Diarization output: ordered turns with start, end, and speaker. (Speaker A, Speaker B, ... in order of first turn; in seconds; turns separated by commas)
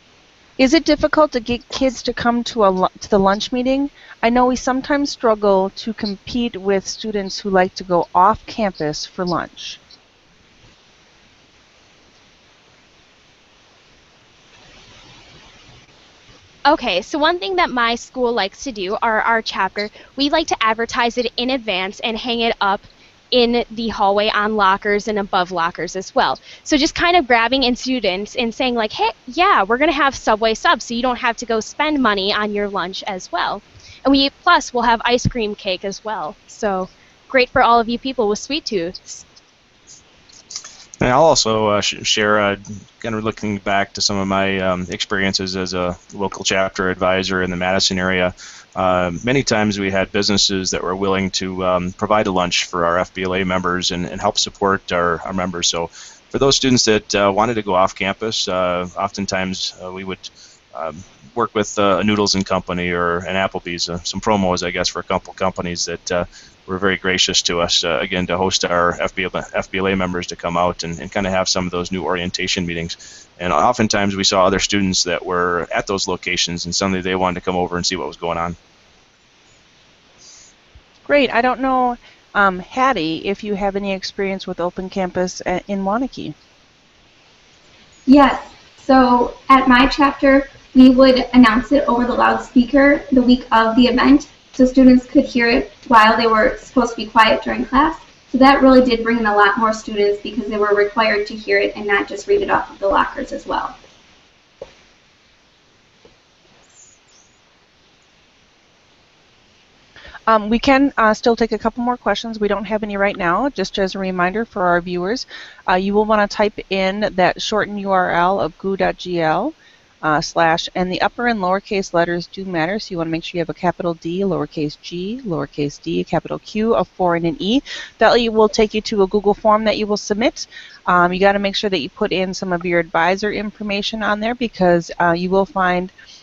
Speaker A: 0.6-9.8, Speaker B: 16.6-39.2, Speaker C: 41.0-78.6, Speaker A: 81.1-86.3, Speaker D: 88.1-103.8, Speaker A: 110.3-135.9